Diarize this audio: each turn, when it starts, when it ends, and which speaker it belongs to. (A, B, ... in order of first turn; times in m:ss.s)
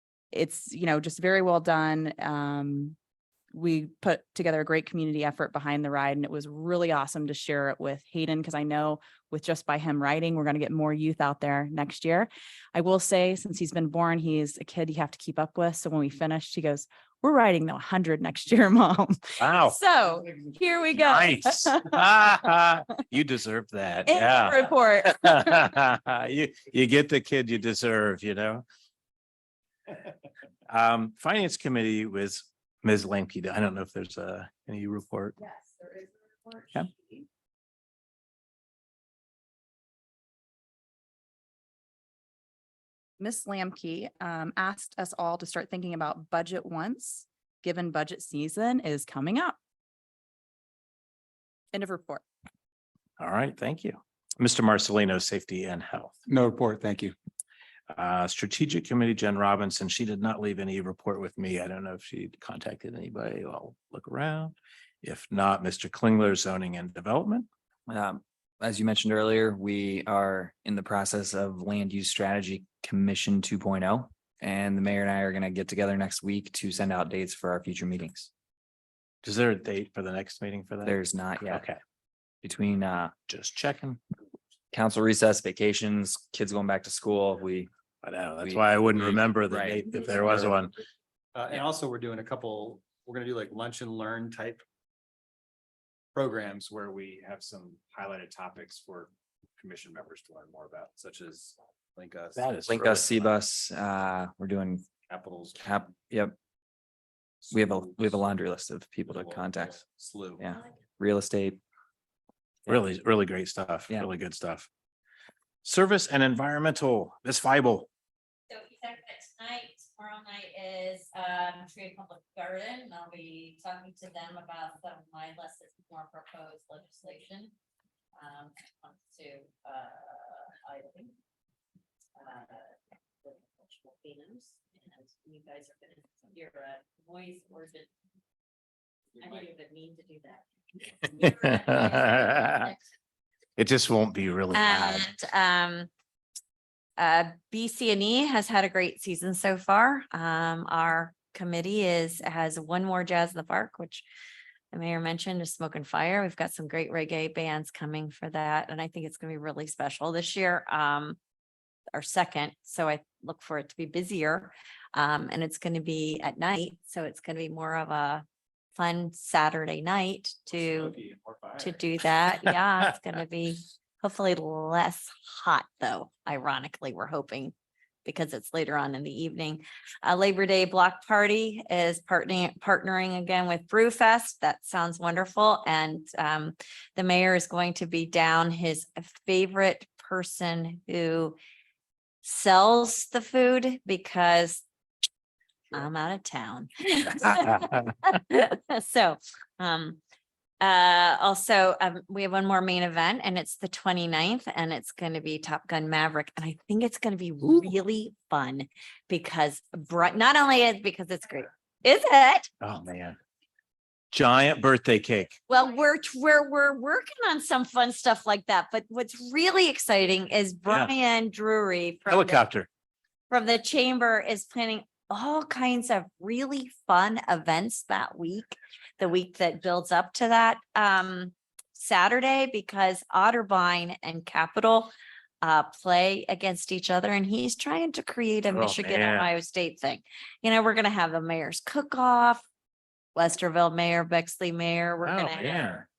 0:00.3-0:03.0 A
0:03.5-0:21.9 A
0:19.4-0:19.8 B
0:20.9-0:28.6 B
0:24.1-0:25.7 A
0:30.7-0:35.4 B
0:35.4-0:37.2 A
0:43.2-0:49.6 A
0:51.7-0:52.2 A
0:53.2-0:56.2 B
0:56.3-0:57.2 C
0:57.9-1:07.5 B
1:07.9-1:18.3 D
1:19.2-1:21.8 B
1:20.8-1:21.6 D
1:22.4-1:23.1 D
1:23.3-1:24.0 B
1:24.7-1:27.7 D
1:28.0-1:30.8 B
1:28.4-1:30.5 D
1:31.3-1:34.6 C
1:36.1-1:42.5 C
1:42.4-1:43.1 B
1:42.7-1:44.9 D
1:45.1-1:45.7 C
1:45.6-1:46.4 D
1:47.5-1:48.2 C
1:47.5-1:49.8 D
1:49.1-1:50.4 C
1:50.4-1:51.6 D
1:52.7-1:54.7 B
1:55.6-1:57.9 B
1:58.5-2:07.5 E
2:08.2-2:11.2 E
2:12.2-2:17.9 E
2:19.2-2:22.8 E
2:21.3-2:22.7 B
2:23.6-2:25.1 B
2:24.5-2:25.9 E
2:27.0-2:34.0 E
2:34.7-2:41.2 E
2:41.9-2:48.2 E
2:48.8-2:51.0 E
2:50.5-2:51.8 C
2:51.6-2:57.5 E
2:58.0-3:11.4 E
3:12.2-3:14.6 E
3:15.7-3:20.0 E
3:20.6-3:32.5 E
3:32.6-3:33.2 B
3:34.1-3:35.4 B
3:35.5-3:42.4 E
3:42.1-3:42.7 B
3:43.3-4:02.5 E
3:58.5-3:59.3 B
4:03.2-4:05.8 E
4:05.0-4:05.8 B